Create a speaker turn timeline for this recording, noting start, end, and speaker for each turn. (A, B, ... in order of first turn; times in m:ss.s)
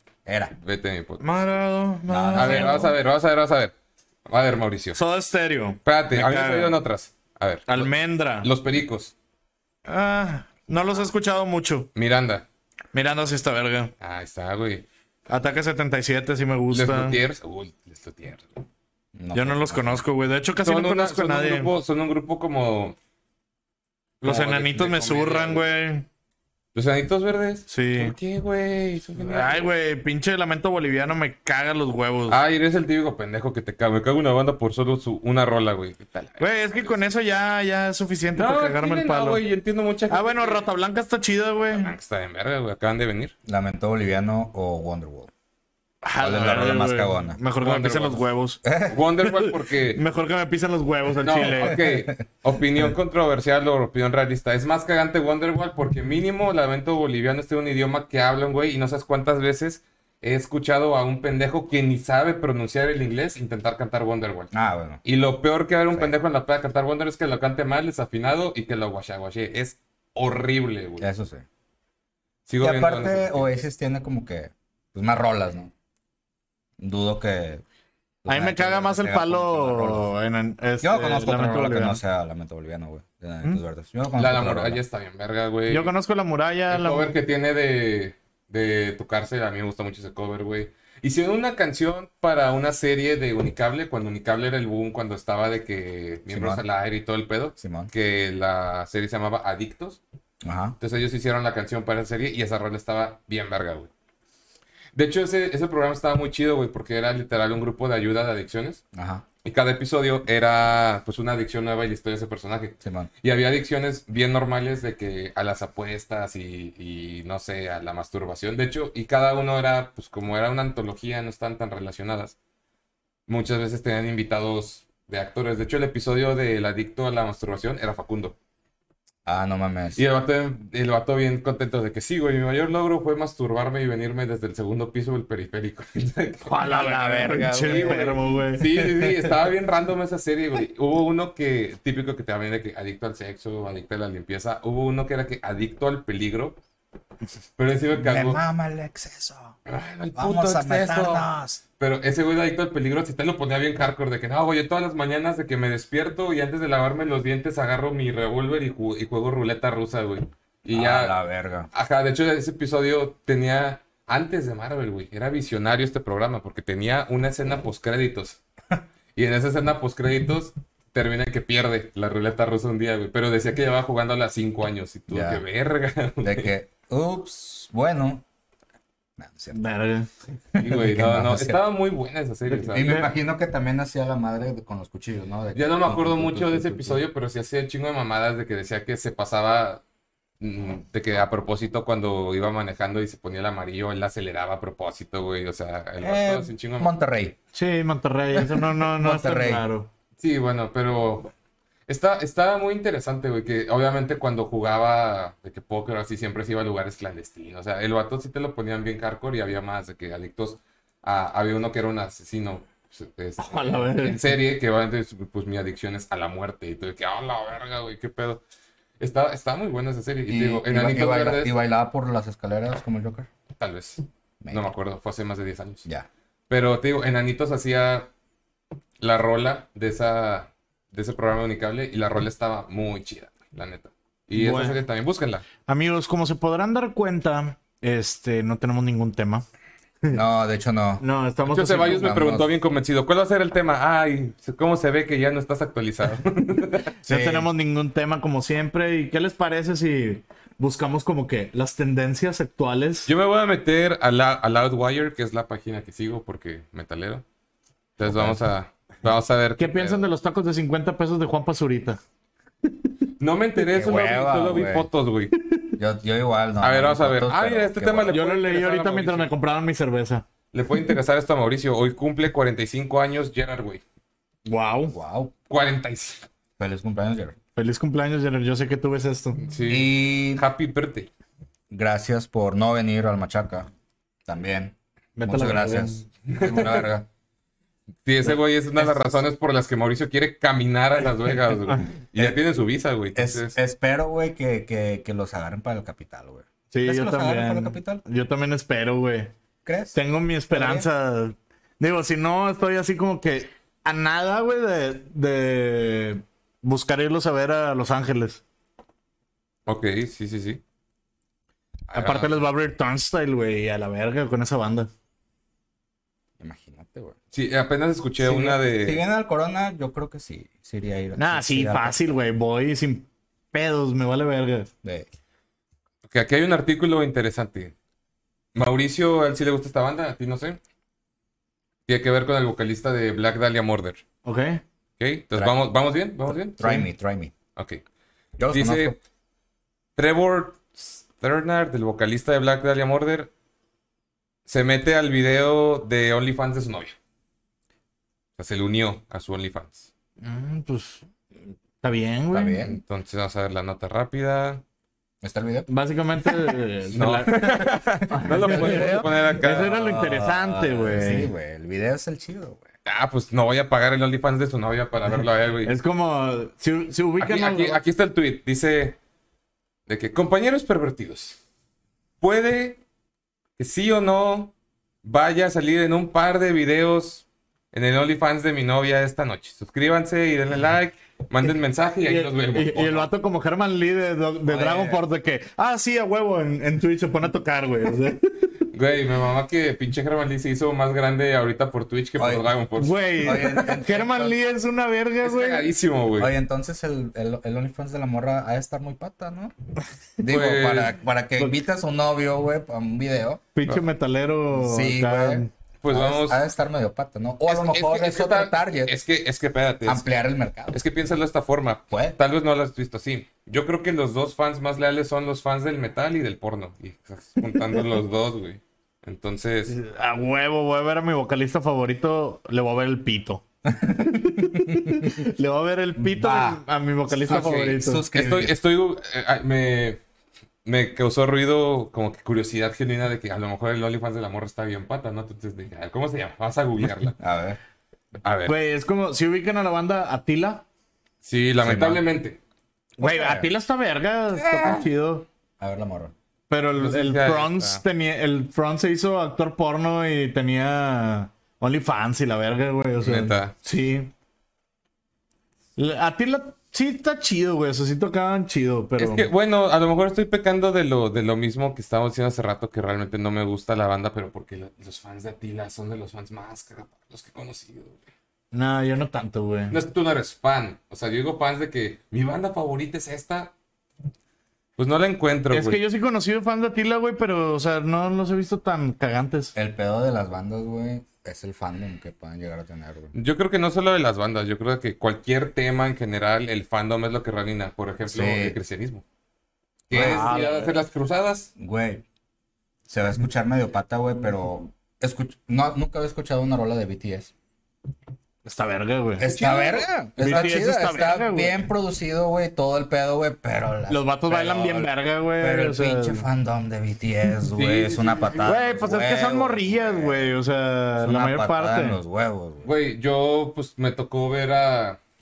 0:00.2-0:00.5 A
0:00.6-0:01.3 B
0:01.2-0:02.9 C
0:02.1-0:02.9 A
0:02.3-0:03.7 B
0:04.3-0:05.0 B
0:05.0-0:06.8 C
0:05.8-0:09.1 B
0:07.7-0:08.5 C
0:09.8-0:11.9 C
0:11.9-0:12.4 B
0:12.9-0:13.9 C
0:14.0-0:14.8 B
0:15.3-0:17.2 C
0:16.7-0:18.6 B
0:19.1-0:20.0 A
0:19.3-0:21.7 C
0:20.6-0:23.0 B
0:24.2-0:26.0 C
0:24.2-0:25.6 B
0:26.7-0:29.7 B
0:27.7-0:28.1 C
0:29.2-0:32.4 C
0:32.3-0:37.1 B
0:36.4-0:39.4 C
0:38.3-0:40.6 B
0:40.1-0:41.9 C
0:41.6-0:43.3 B
0:43.4-0:45.3 A
0:46.0-0:48.6 C
0:46.2-0:47.4 A
0:47.6-0:48.2 B
0:48.6-0:49.0 A
0:48.9-0:50.0 B
0:49.2-0:51.8 C
0:51.2-1:04.5 B
1:04.5-1:05.0 A
1:05.0-1:11.1 B
1:11.0-1:11.4 A
1:12.4-1:13.5 B
1:12.6-1:15.7 A
1:16.8-1:17.6 A
1:18.2-1:20.1 A
1:18.3-1:22.0 C
1:20.8-1:24.8 A
1:24.2-1:25.9 B
1:25.7-1:27.1 C
1:26.7-1:40.0 B
1:36.3-1:36.6 A
1:37.6-1:37.9 A
1:40.4-1:40.8 A
1:40.8-1:43.9 B
1:44.9-1:48.8 B
1:48.9-1:49.2 A
1:49.4-2:02.4 B
1:52.8-1:53.1 A
2:03.3-2:08.4 B
2:09.2-2:10.0 A
2:10.0-2:17.0 B
2:16.4-2:18.6 C
2:16.7-2:18.0 A
2:17.5-2:26.6 B
2:18.6-2:19.3 A
2:27.6-2:28.4 B
2:27.9-2:29.5 A
2:29.7-2:31.3 B
2:30.1-2:31.6 A
2:31.8-2:41.2 B
2:40.7-2:41.7 A
2:41.7-2:48.4 B
2:49.1-2:56.5 B
2:55.1-2:55.4 A
2:56.2-2:58.2 A
2:59.2-2:59.6 A
2:59.5-3:00.1 C
3:00.5-3:01.6 A
3:00.6-3:02.9 B
3:02.6-3:03.1 C
3:02.7-3:07.0 A
3:05.5-3:09.8 B
3:10.4-3:16.9 B
3:16.0-3:17.4 A
3:17.5-3:19.9 C
3:18.3-3:19.6 A
3:20.2-3:21.3 B
3:21.9-3:38.4 B
3:33.4-3:34.3 C
3:39.0-3:41.6 B
3:40.3-3:43.3 A
3:43.6-3:45.8 B
3:46.5-3:48.1 B
3:49.0-3:55.4 B
3:54.3-3:54.8 C
3:55.6-3:59.4 C
4:00.1-4:01.0 A
4:01.0-4:02.2 C
4:01.5-4:06.9 B
4:01.8-4:02.5 A
4:07.0-4:13.1 C
4:07.1-4:07.5 A
4:13.0-4:17.2 B
4:18.0-4:20.0 B
4:18.0-4:18.4 A
4:19.6-4:22.0 C
4:23.2-4:25.3 B
4:23.7-4:24.9 A
4:25.8-4:28.2 A
4:26.6-4:29.3 B
4:28.1-4:30.2 C
4:30.5-4:33.8 B
4:34.4-4:35.0 C
4:34.9-4:35.3 A
4:35.5-4:36.2 B
4:36.6-4:37.4 A
4:37.6-4:39.4 C
4:39.4-4:41.1 B
4:39.7-4:40.4 A
4:41.7-4:43.7 A
4:44.2-4:47.1 A
4:45.2-4:46.0 C
4:46.2-4:46.9 B
4:48.0-4:53.6 B
4:53.1-4:58.0 A
4:56.7-4:59.3 C
4:59.6-5:00.0 A
4:59.9-5:08.4 C
5:00.5-5:00.9 A
5:09.7-5:10.6 B
5:11.9-5:12.4 B
5:11.9-5:14.9 C
5:16.4-5:17.2 A
5:17.3-5:19.0 B
5:18.2-5:22.1 A
5:21.1-5:24.7 C
5:26.0-5:27.7 B
5:28.5-5:30.6 B
5:31.9-5:34.0 B
5:34.2-5:34.6 C
5:35.0-5:36.6 B
5:36.5-5:37.3 A
5:36.6-5:36.8 C
5:37.6-5:37.8 B
5:38.4-5:39.0 A
5:38.5-5:38.9 B
5:40.0-5:43.3 B
5:44.5-5:46.9 B
5:48.4-5:49.9 B
5:50.2-5:51.0 C
5:51.8-5:52.6 C
5:52.3-5:52.8 A
5:52.6-5:54.6 B
5:55.2-5:55.7 A
5:55.7-6:01.3 C
5:56.9-5:59.7 B
5:57.3-6:02.7 A
6:02.8-6:05.7 B
6:05.6-6:07.8 C
6:07.2-6:09.0 B
6:09.9-6:11.4 B
6:12.2-6:12.8 B
6:13.6-6:14.5 B
6:15.0-6:23.1 B
6:22.0-6:28.3 C
6:24.4-6:25.0 A
6:28.7-6:33.6 B
6:32.2-6:32.5 A
6:32.8-6:35.6 C
6:33.2-6:34.4 A
6:35.2-6:36.3 B
6:36.2-6:39.5 A
6:40.2-6:43.4 A
6:40.2-6:40.9 B
6:43.5-6:45.5 C
6:44.5-6:48.9 A
6:45.8-6:46.4 B
6:47.4-6:50.1 B
6:49.8-6:50.8 A
6:50.7-6:59.8 B
6:51.9-6:52.2 A
6:59.7-7:08.0 C
7:03.6-7:05.2 A
7:06.0-7:06.6 A
7:07.2-7:08.5 A
7:07.3-7:10.0 B
7:10.6-7:17.2 B
7:17.2-7:17.6 A
7:18.2-7:18.5 B
7:18.5-7:20.6 C
7:21.2-7:22.4 B
7:21.6-7:22.0 A
7:23.0-7:23.5 A
7:23.0-7:25.3 C
7:24.3-7:24.9 A
7:25.6-7:26.1 A
7:26.5-7:34.1 C
7:26.8-7:27.8 B
7:33.0-7:33.5 B
7:35.8-7:39.3 C
7:39.0-7:48.0 B
7:48.5-7:49.8 C
7:49.7-7:53.5 B
7:54.8-7:55.8 B
7:55.5-7:59.5 C
7:59.5-8:03.1 A
8:03.1-8:09.0 B
8:08.0-8:08.6 A
8:09.9-8:11.5 B
8:09.9-8:10.3 A
8:09.9-8:10.8 C
8:11.6-8:12.0 A
8:12.9-8:17.3 A
8:18.4-8:19.2 C
8:19.2-8:30.3 A
8:19.2-8:19.9 B
8:20.2-8:21.6 C
8:23.9-8:26.2 C
8:27.5-8:28.6 B
8:28.4-8:32.0 C
8:31.0-8:32.7 A
8:32.6-8:35.0 B